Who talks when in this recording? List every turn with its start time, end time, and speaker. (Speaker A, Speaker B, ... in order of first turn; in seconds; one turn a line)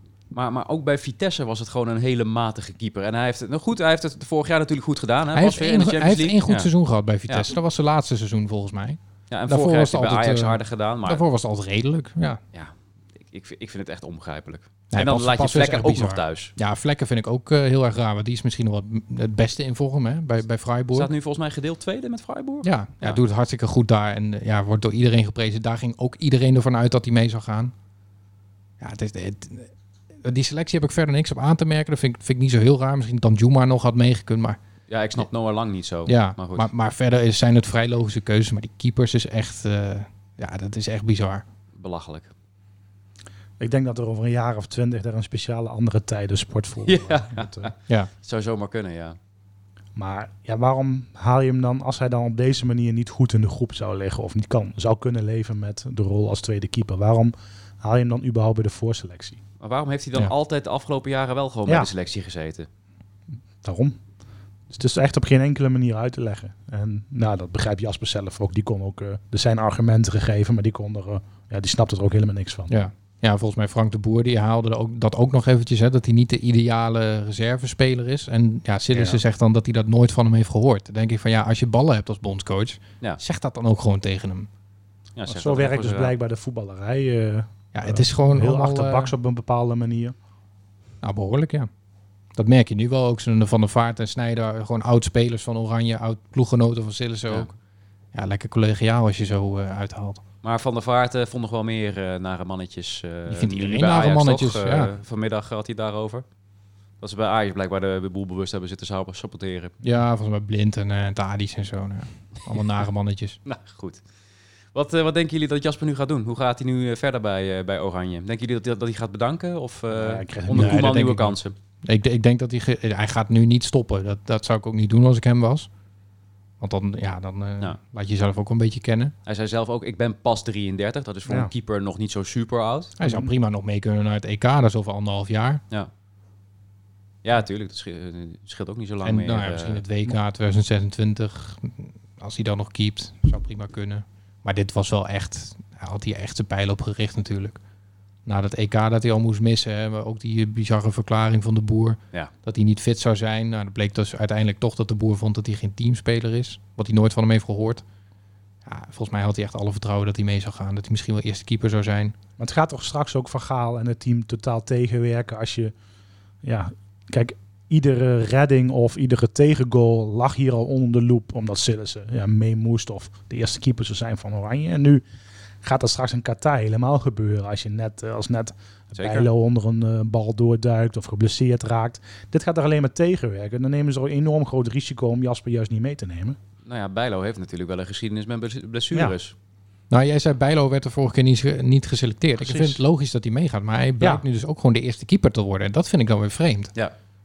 Speaker A: 0.3-6.7
Speaker B: 5.3-12.4
Speaker A: 9.3-11.2
Speaker A: 12.5-16.5
Speaker B: 14.9-21.1
Speaker A: 20.9-23.2
Speaker B: 22.6-27.7
Speaker B: 28.8-34.6
Speaker A: 34.9-36.7
Speaker B: 36.1-41.4
Speaker A: 41.8-42.3
Speaker C: 43.6-47.7
Speaker A: 46.9-49.2
Speaker C: 50.0-59.4
Speaker A: 59.6-62.7
Speaker C: 63.6-64.0
Speaker C: 64.7-72.7
Speaker B: 72.7-84.5
Speaker C: 78.9-79.2
Speaker A: 85.2-86.1
Speaker C: 85.3-90.2
Speaker B: 87.7-89.1
Speaker B: 91.0-91.7
Speaker B: 92.4-97.5
Speaker B: 98.1-100.2
Speaker A: 100.4-106.2
Speaker B: 103.3-104.9
Speaker A: 107.0-109.8
Speaker B: 109.8-113.4
Speaker A: 113.5-114.0
Speaker A: 114.7-121.5
Speaker C: 119.9-121.0
Speaker B: 120.5-125.7
Speaker B: 126.6-129.1
Speaker A: 129.3-132.9
Speaker B: 133.0-135.6
Speaker C: 133.0-133.3
Speaker A: 137.2-139.8
Speaker B: 139.0-147.6
Speaker B: 148.3-157.8
Speaker B: 158.7-162.2
Speaker C: 162.4-165.7
Speaker C: 166.4-175.0
Speaker C: 175.6-186.4
Speaker A: 178.9-179.3
Speaker A: 186.7-189.3
Speaker B: 189.9-196.7
Speaker C: 192.4-192.8